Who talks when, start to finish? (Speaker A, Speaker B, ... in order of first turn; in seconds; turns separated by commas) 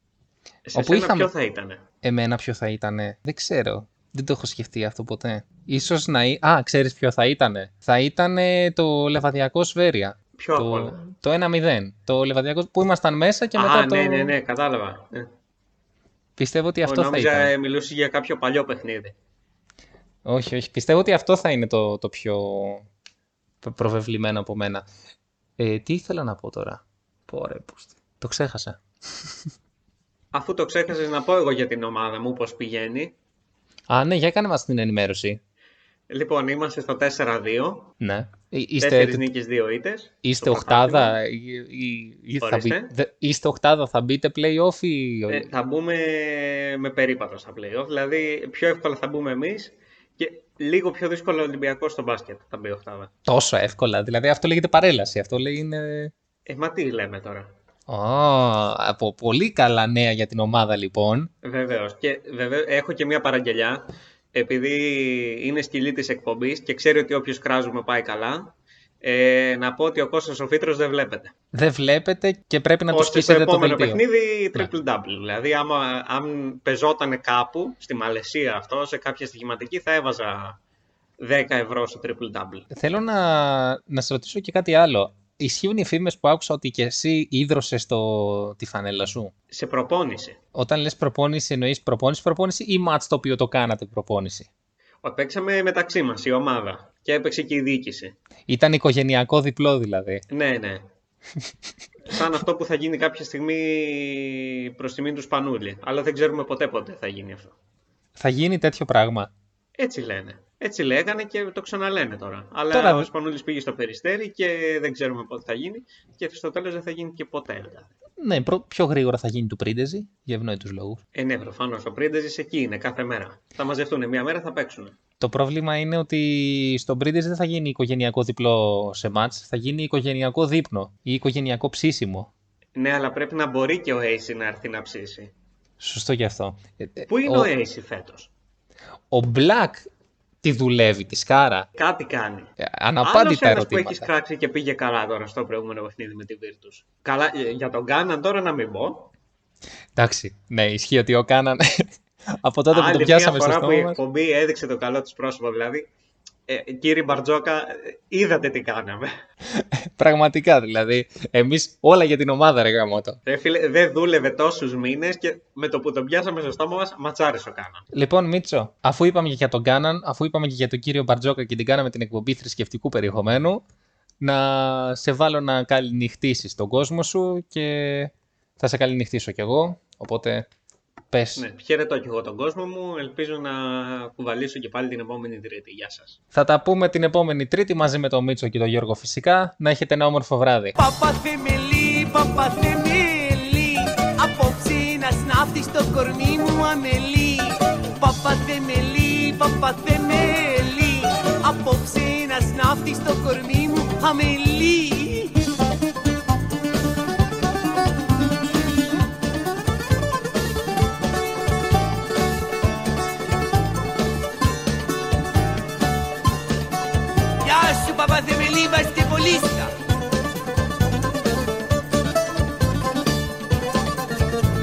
Speaker A: 0.7-1.8, Speaker B: 0.7-1.3, Speaker B: 2.0-14.3, Speaker A: 10.3-11.0, Speaker A: 13.6-15.3, Speaker B: 16.4-17.5, Speaker A: 16.8-19.1, Speaker B: 20.2-22.9, Speaker B: 23.6-24.8, Speaker B: 25.6-29.3, Speaker A: 30.3-33.1, Speaker B: 33.9-35.4, Speaker A: 36.1-37.9, Speaker B: 38.0-39.3, Speaker A: 38.8-41.1, Speaker B: 40.2-45.5, Speaker A: 42.4-42.9, Speaker A: 45.3-53.1, Speaker B: 53.2-56.1, Speaker A: 56.5-57.5, Speaker B: 57.9-61.3, Speaker A: 61.4-71.3, Speaker B: 71.5-74.0, Speaker A: 72.9-80.6, Speaker A: 81.2-82.7, Speaker B: 82.7-89.3, Speaker A: 89.5-90.4, Speaker B: 90.5-94.5, Speaker A: 95.0-98.1, Speaker B: 98.5-100.2, Speaker A: 100.3-100.8, Speaker A: 102.1-107.5, Speaker B: 108.2-109.3, Speaker A: 109.8-117.9, Speaker B: 112.7-113.1, Speaker B: 118.2-121.0, Speaker A: 121.1-125.0, Speaker B: 125.2-132.3, Speaker A: 132.8-135.3, Speaker B: 135.8-137.5, Speaker A: 137.1-138.3, Speaker B: 139.1-139.9, Speaker B: 140.4-141.7, Speaker A: 141.8-142.5, Speaker B: 142.6-144.1, Speaker A: 143.0-149.1, Speaker B: 149.9-154.0, Speaker A: 152.7-155.9, Speaker A: 156.5-159.1, Speaker B: 159.5-163.2, Speaker A: 163.2-167.8, Speaker B: 167.9-173.6, Speaker B: 174.2-180.5, Speaker B: 181.1-181.4, Speaker A: 181.3-186.2, Speaker B: 186.3-190.8, Speaker C: 190.8-205.4, Speaker C: 217.4-219.7